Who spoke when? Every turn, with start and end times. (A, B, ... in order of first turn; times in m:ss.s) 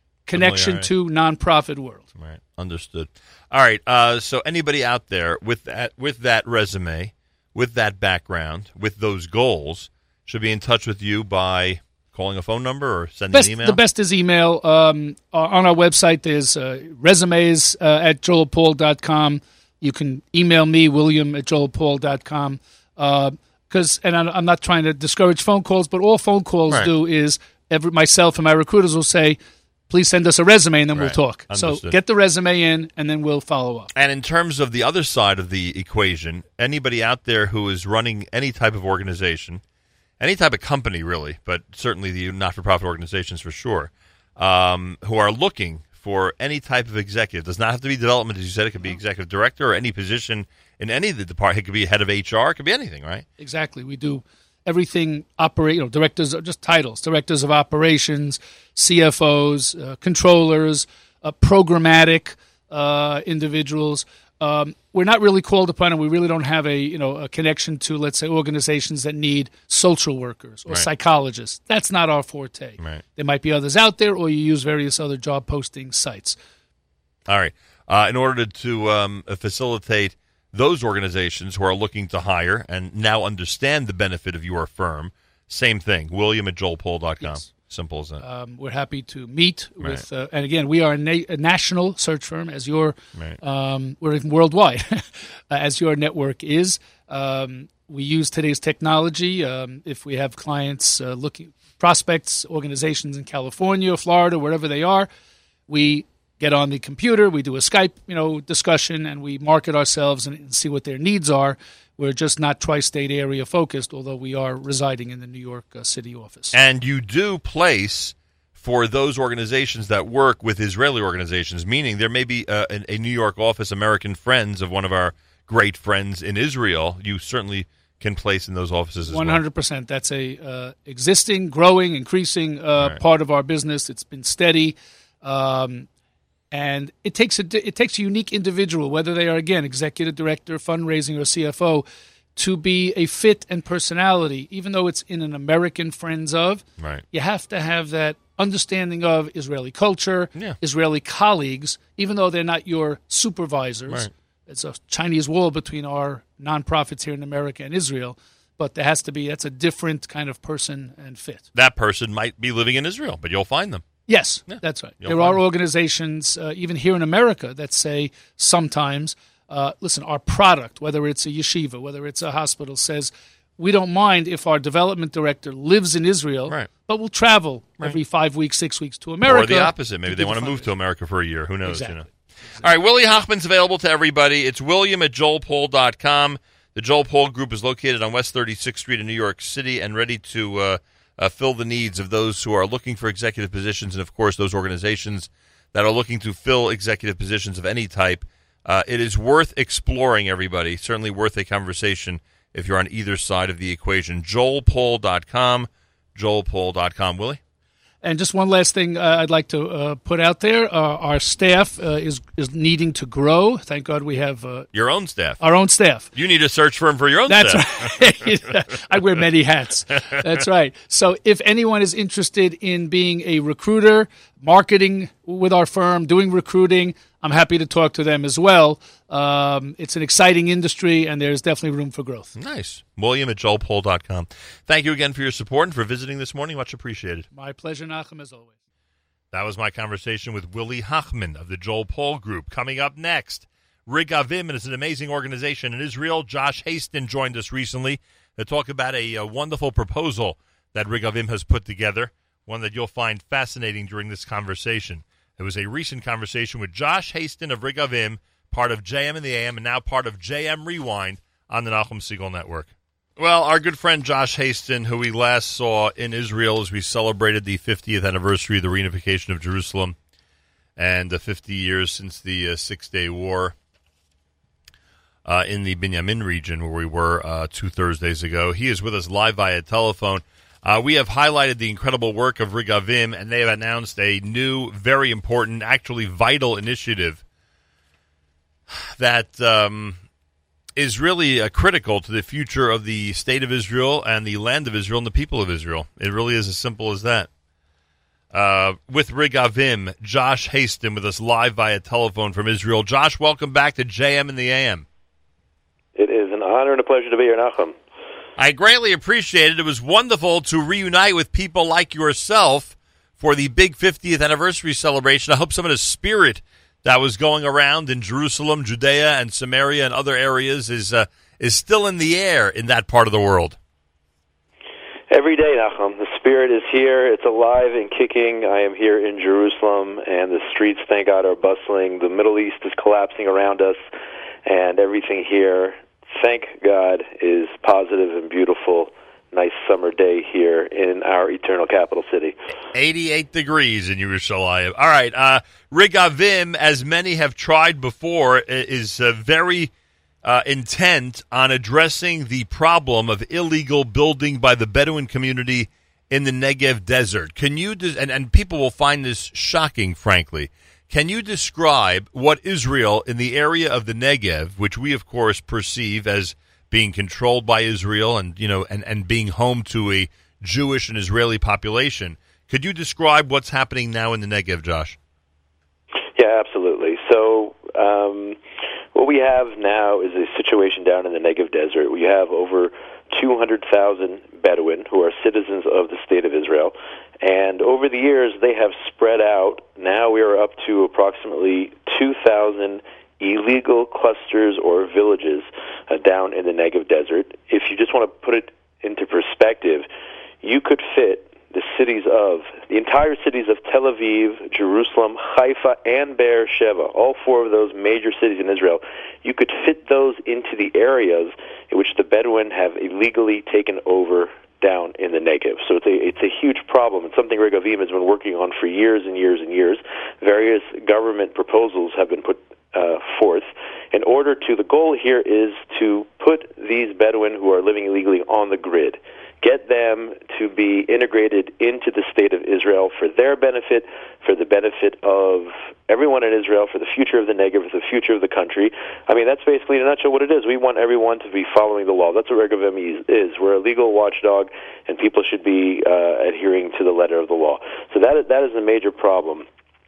0:00.3-0:02.1 A
0:00.3-0:00.9 B
0:02.2-0:13.8 B
0:13.3-0:33.9 A
0:30.9-0:32.0 B
0:33.9-0:39.6 B
0:40.2-0:53.2 B
0:53.4-1:16.4 A
1:17.3-1:28.2 B
1:27.2-1:27.5 A
1:28.2-1:45.1 A
1:45.7-1:56.5 A
1:56.5-2:09.4 B
2:09.0-2:15.9 A
2:16.5-2:41.4 A
2:26.8-2:27.0 B
2:41.5-2:43.9 B
2:44.1-3:00.7 A
2:44.5-2:45.4 B
2:59.2-3:02.0 B
3:01.6-3:02.6 A
3:02.6-3:27.4 B
3:28.0-3:34.7 A
3:34.7-3:35.4 B
3:35.4-3:36.1 A
3:36.1-3:37.9 B
3:37.3-3:52.3 A
3:52.4-3:57.3 B
3:57.3-3:58.5 A
3:59.3-4:30.0 B
4:30.8-4:33.5 B
4:35.2-4:47.2 B
4:48.7-4:50.0 B
4:50.8-4:57.3 B
4:58.3-5:04.8 B
5:05.9-5:07.7 C
5:08.4-5:23.6 B
5:25.1-5:33.8 C
5:34.4-5:42.3 C
5:42.7-5:49.7 B
5:50.2-6:15.0 B
6:16.2-6:18.4 C
6:18.9-6:39.9 C
6:40.4-7:29.4 C